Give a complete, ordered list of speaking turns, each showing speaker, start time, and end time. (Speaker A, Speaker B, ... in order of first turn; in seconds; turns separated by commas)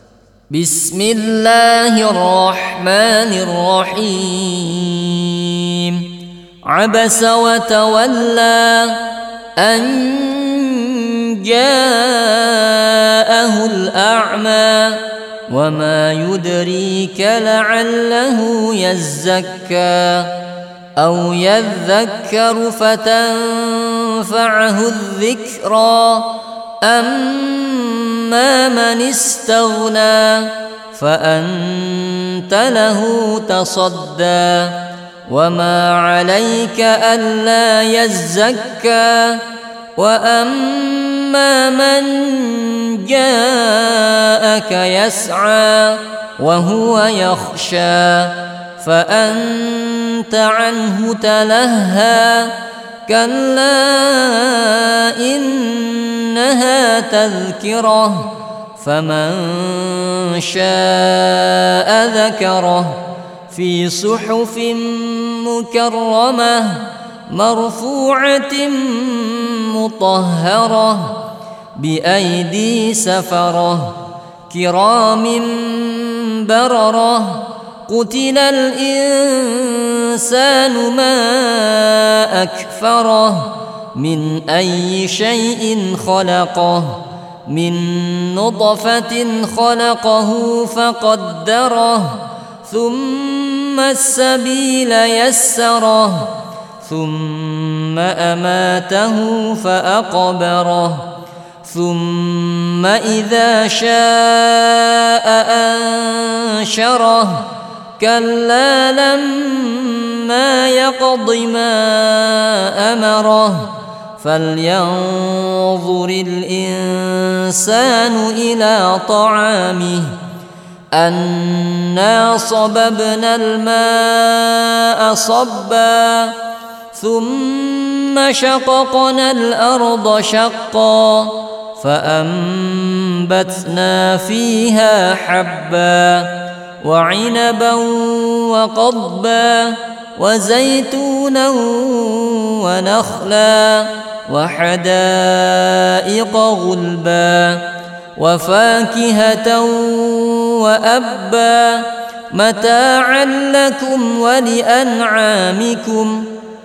Speaker A: 0.5-6.1, Speaker A: 6.7-9.0, Speaker A: 9.6-20.4, Speaker A: 21.0-39.4, Speaker A: 40.0-52.5, Speaker A: 53.0-71.2, Speaker A: 71.8-74.0, Speaker A: 74.5-96.3, Speaker A: 96.8-101.1, Speaker A: 101.6-107.5, Speaker A: 108.0-120.2, Speaker A: 120.9-126.4, Speaker A: 126.9-147.6, Speaker A: 148.2-156.3